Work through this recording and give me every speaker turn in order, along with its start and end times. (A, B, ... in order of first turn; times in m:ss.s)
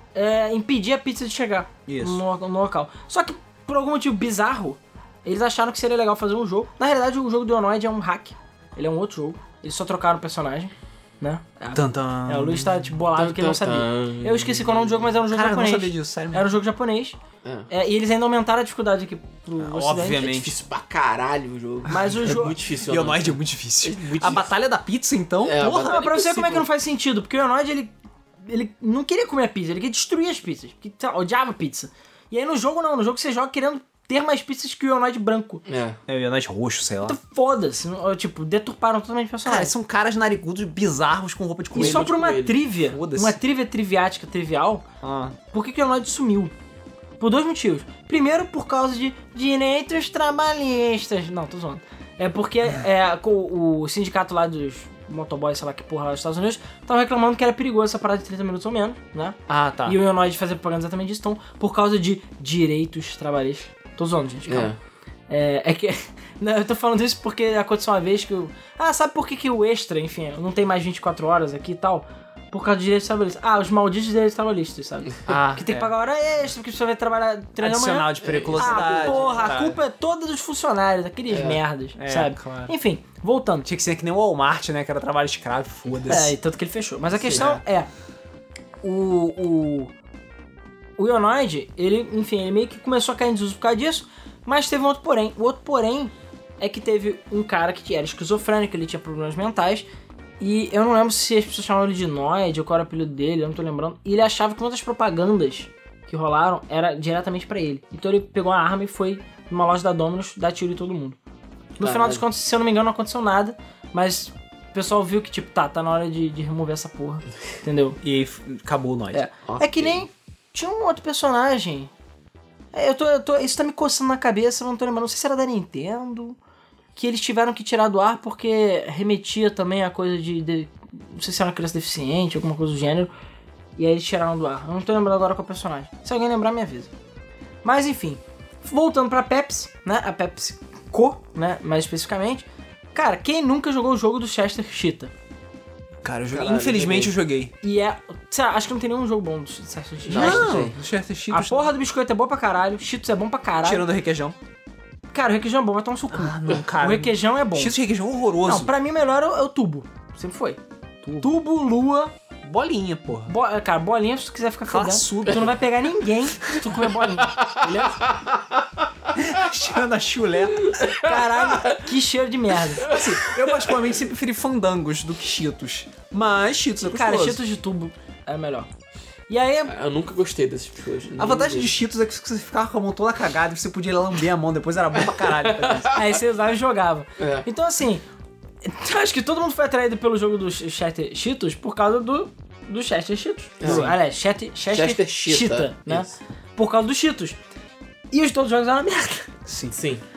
0:00.2-0:17.2 A
0:01.9-0:02.2 B
0:11.7-0:12.8 B
0:13.1-0:15.1 C
0:15.3-0:16.5 B
0:17.7-0:20.4 A
0:19.6-0:20.6 B
0:20.2-0:24.5 C
0:21.9-0:22.6 A
0:22.9-0:25.8 B
0:25.4-0:26.7 C
0:25.6-0:35.6 A
0:35.7-0:36.0 C
0:36.1-0:37.2 B
0:37.0-0:39.7 A
0:39.4-0:42.1 B
0:41.7-0:44.8 A
0:41.7-0:42.6 C
0:42.9-0:43.4 B
0:45.0-0:45.4 B
0:45.5-0:46.5 A
0:47.2-1:04.7 A
0:59.5-1:00.0 B
1:04.5-1:04.8 C
1:05.3-1:23.7 A
1:15.3-1:15.9 B
1:17.6-1:19.8 B
1:18.2-1:19.5 C
1:21.3-1:21.6 C
1:22.0-1:22.7 B
1:23.7-1:26.3 B
1:26.1-1:27.9 A
1:27.2-1:27.6 B
1:28.8-1:29.9 A
1:31.0-1:39.9 A
1:40.4-1:51.2 A
1:51.8-1:58.0 A
1:51.8-1:52.2 C
1:58.0-1:59.2 B
1:59.1-2:01.9 A
1:59.5-2:00.0 C
2:02.7-2:06.4 A
2:07.0-2:13.1 A
2:13.8-2:16.9 A
2:17.6-2:25.1 A
2:26.0-2:27.5 B
2:26.3-2:27.1 C
2:27.6-2:30.7 A
2:30.1-2:30.8 C
2:30.1-2:31.7 B
2:31.3-2:33.8 A
2:33.6-2:34.4 B
2:35.1-2:37.8 A
2:36.1-2:38.7 B
2:38.4-2:40.6 A
2:41.0-2:41.3 B
2:41.2-2:42.1 A
2:42.4-2:43.3 B
2:43.2-2:48.1 A
2:44.7-2:45.6 B
2:47.2-2:48.4 C
2:49.2-2:51.1 B
2:50.9-2:52.9 A
2:51.4-2:51.8 C
2:52.8-2:53.8 C
2:52.8-2:57.4 B
2:56.8-2:58.7 A
2:59.3-2:59.7 A
2:59.7-3:01.7 C
3:01.2-3:05.9 B
3:05.3-3:06.0 C
3:05.9-3:08.0 A
3:07.2-3:07.5 C
3:08.6-3:17.4 A
3:13.6-3:13.9 C
3:13.6-3:14.0 B
3:14.7-3:16.2 C
3:18.1-3:19.3 A
3:19.5-3:19.8 B
3:19.7-3:20.0 C